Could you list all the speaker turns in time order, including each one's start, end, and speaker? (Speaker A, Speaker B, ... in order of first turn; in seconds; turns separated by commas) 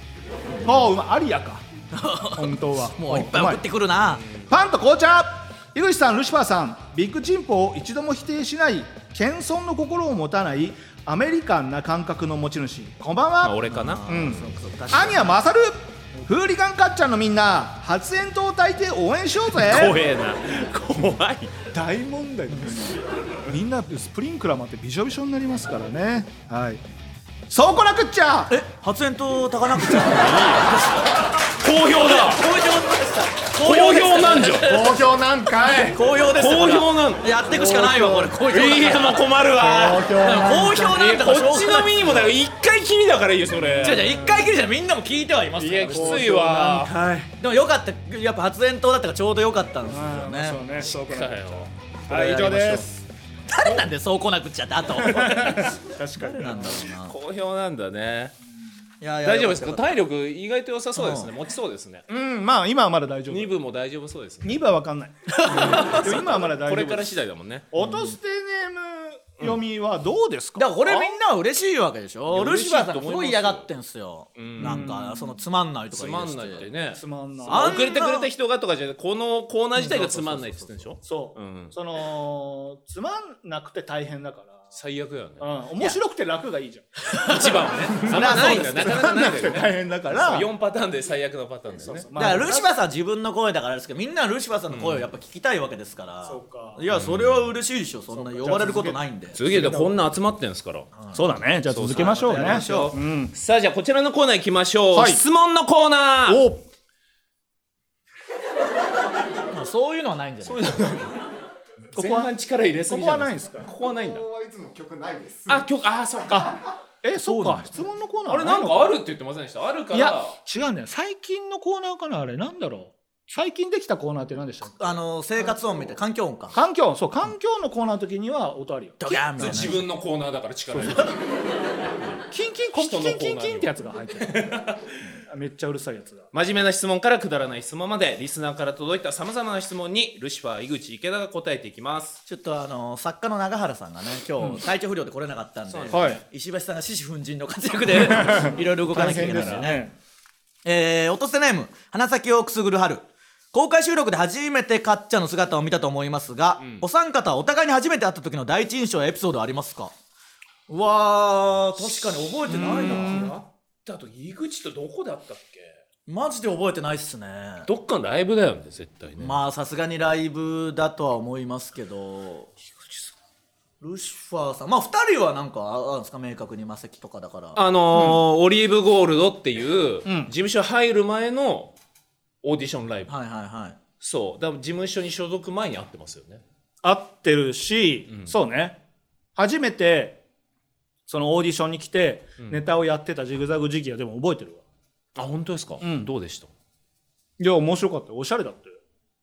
Speaker A: 0.6-1.6, Speaker B: 1.9-4.2, Speaker A: 2.4-3.6, Speaker A: 4.5-20.0, Speaker C: 13.4-14.3, Speaker B: 13.7-15.3, Speaker C: 19.5-21.5, Speaker A: 21.7-26.8, Speaker A: 27.5-28.6, Speaker B: 28.5-31.1, Speaker C: 29.9-30.9, Speaker C: 31.5-32.5, Speaker B: 32.0-35.0, Speaker C: 33.6-34.9, Speaker D: 34.6-36.0, Speaker B: 35.8-39.3, Speaker C: 36.2-37.2, Speaker A: 37.5-38.3, Speaker C: 38.5-40.2, Speaker A: 39.6-40.9, Speaker D: 39.7-40.6, Speaker B: 40.1-42.3, Speaker C: 40.7-44.3, Speaker A: 43.5-44.3, Speaker B: 43.8-46.3, Speaker C: 45.6-46.9, Speaker A: 45.9-47.3, Speaker B: 47.4-50.6, Speaker A: 49.9-52.9, Speaker C: 50.8-53.0, Speaker B: 53.5-55.8, Speaker A: 55.0-56.8, Speaker B: 56.3-57.1, Speaker C: 56.8-58.3, Speaker B: 59.0-60.0, Speaker C: 59.2-62.1, Speaker B: 61.0-61.3, Speaker A: 62.1-63.6, Speaker C: 63.3-64.7, Speaker A: 64.4-67.2, Speaker B: 65.3-66.0, Speaker C: 65.5-67.7, Speaker A: 67.7-71.1, Speaker B: 67.8-68.1, Speaker B: 70.6-76.7, Speaker C: 72.3-73.7, Speaker C: 74.3-74.9, Speaker A: 74.6-75.4, Speaker C: 75.9-81.7, Speaker A: 76.9-78.0, Speaker B: 77.5-78.3, Speaker B: 79.8-80.9, Speaker A: 81.0-84.7, Speaker C: 84.7-85.5, Speaker A: 85.4-87.2, Speaker B: 87.2-89.0, Speaker C: 87.2-92.1, Speaker A: 88.0-90.5, Speaker A: 91.8-92.7, Speaker B: 92.1-99.4, Speaker C: 94.7-95.1, Speaker A: 96.2-96.8, Speaker C: 96.9-97.5, Speaker A: 98.1-99.9, Speaker C: 99.3-100.9, Speaker A: 101.1-103.3, Speaker C: 101.7-106.4, Speaker B: 102.0-103.0, Speaker A: 104.9-105.2, Speaker A: 106.3-106.6, Speaker B: 109.5-110.7, Speaker C: 110.4-111.2, Speaker C: 111.9-114.2, Speaker A: 111.9-112.3, Speaker A: 112.9-113.7, Speaker D: 113.8-115.7, Speaker C: 115.5-116.5, Speaker A: 116.3-119.0, Speaker B: 117.3-117.6, Speaker C: 118.3-120.3, Speaker A: 119.9-125.0, Speaker B: 124.8-126.5, Speaker A: 126.5-129.7, Speaker B: 129.0-129.8, Speaker C: 129.3-131.2, Speaker A: 130.7-131.1, Speaker A: 132.3-134.6, Speaker C: 132.7-135.0, Speaker A: 135.3-136.3, Speaker C: 136.3-142.2, Speaker B: 142.3-149.8, Speaker C: 145.7-146.2, Speaker A: 145.9-146.2, Speaker A: 148.0-149.9, Speaker B: 150.6-159.9, Speaker B: 160.7-163.3, Speaker A: 162.5-163.3, Speaker C: 162.5-165.8, Speaker B: 166.1-167.7, Speaker C: 167.7-169.4, Speaker B: 169.2-172.5, Speaker B: 173.8-177.6, Speaker C: 177.6-181.7, Speaker A: 180.0-180.3, Speaker C: 182.4-183.1, Speaker B: 183.1-183.8, Speaker C: 184.0-186.4, Speaker A: 186.8-188.8, Speaker A: 189.3-190.2, Speaker A: 191.1-194.6, Speaker C: 195.2-196.5, Speaker A: 195.8-196.1, Speaker A: 197.4-198.8